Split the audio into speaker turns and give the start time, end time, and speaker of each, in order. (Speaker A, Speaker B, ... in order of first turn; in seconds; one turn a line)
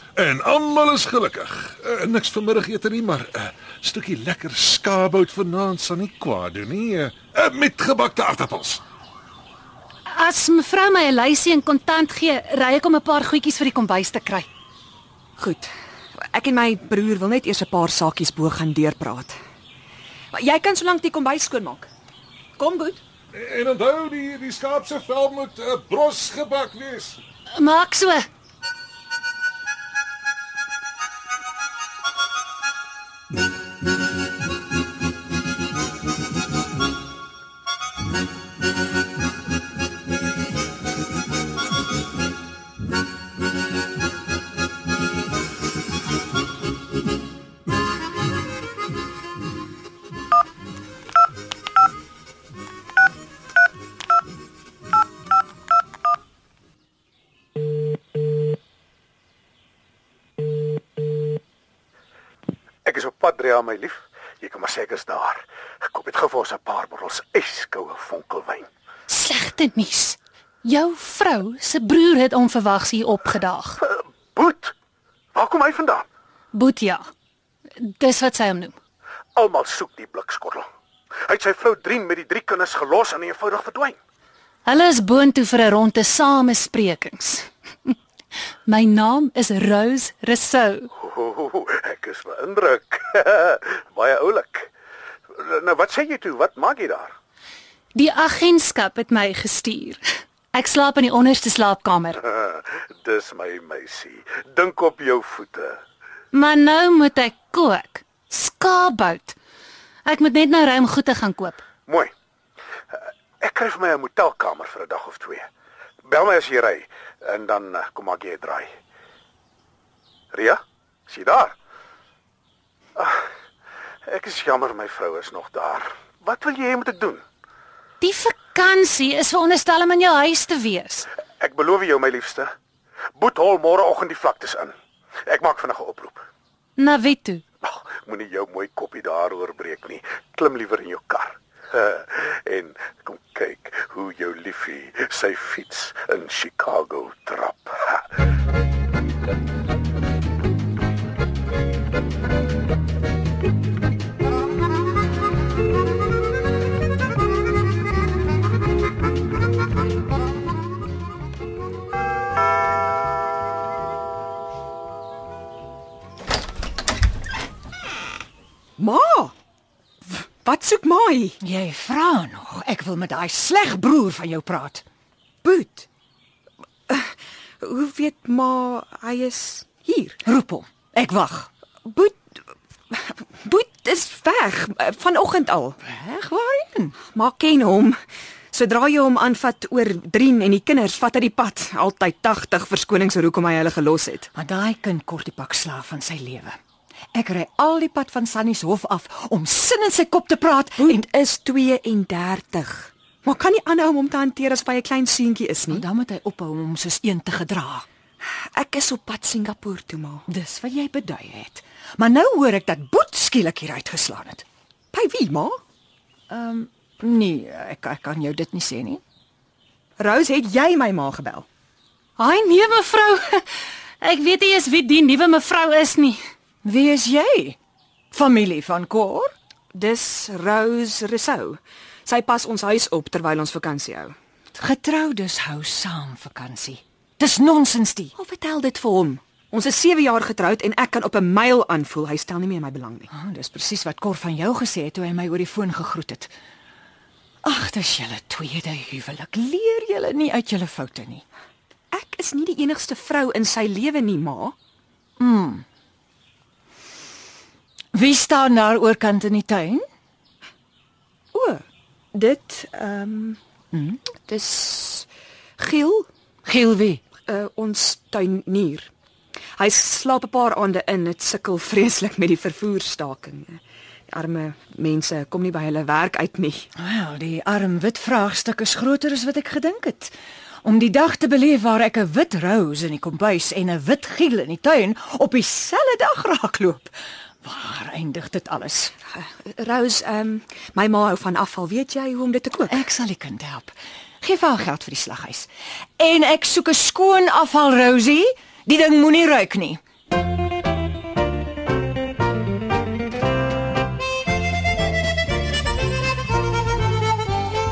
Speaker A: 0.1-8.8
Speaker B: 10.1-14.5
Speaker C: 15.4-15.7
Speaker C: 16.3-19.4
Speaker C: 20.3-21.9
Speaker C: 22.6-23.0
Speaker A: 23.3-27.2
Speaker B: 27.6-28.2
Speaker D: 62.8-68.7
Speaker B: 69.1-73.8
Speaker D: 73.8-74.7
Speaker D: 75.3-76.1
Speaker B: 76.5-77.0
Speaker B: 77.8-78.8
Speaker D: 79.3-80.7
Speaker D: 81.2-84.0
Speaker B: 84.7-87.9
Speaker B: 88.7-90.9
Speaker D: 90.9-94.7
Speaker D: 95.3-97.1
Speaker B: 97.9-100.0
Speaker B: 100.5-102.2
Speaker D: 102.2-105.8
Speaker B: 106.3-109.4
Speaker B: 110.0-111.6
Speaker D: 111.9-112.1
Speaker D: 112.9-115.5
Speaker D: 116.0-118.7
Speaker D: 120.3-121.5
Speaker D: 123.0-123.2
Speaker D: 124.0-127.2
Speaker B: 128.0-131.1
Speaker D: 131.4-132.5
Speaker D: 133.2-136.2
Speaker B: 136.8-137.4
Speaker D: 137.6-148.1
Speaker C: 168.8-169.3
Speaker C: 170.1-171.4
Speaker E: 171.4-174.8
Speaker C: 175.4-175.8
Speaker C: 176.9-180.2
Speaker E: 180.2-181.5
Speaker C: 181.8-182.2
Speaker C: 182.9-185.8
Speaker E: 185.8-187.0
Speaker C: 187.1-188.0
Speaker C: 188.5-194.3
Speaker E: 194.3-196.6
Speaker E: 197.1-201.0
Speaker C: 200.8-205.8
Speaker E: 205.7-207.8
Speaker C: 208.2-210.3
Speaker E: 210.3-214.4
Speaker C: 214.9-215.6
Speaker E: 216.3-219.0
Speaker C: 220.0-221.5
Speaker B: 222.2-223.4
Speaker B: 224.0-226.2
Speaker E: 226.6-227.6
Speaker E: 228.1-229.3
Speaker C: 229.7-234.1
Speaker E: 234.5-238.1
Speaker C: 238.2-243.1
Speaker E: 243.1-246.3
Speaker E: 247.4-251.2
Speaker C: 251.9-254.5
Speaker E: 255.2-255.6
Speaker E: 257.9-259.8
Speaker C: 261.3-263.4
Speaker E: 263.7-264.0
Speaker C: 264.1-265.1
Speaker C: 265.6-266.1
Speaker E: 266.4-267.0
Speaker C: 267.2-268.9
Speaker C: 269.6-273.6
Speaker C: 274.1-276.7
Speaker E: 276.8-288.9
Speaker C: 289.1-292.9
Speaker E: 292.6-299.8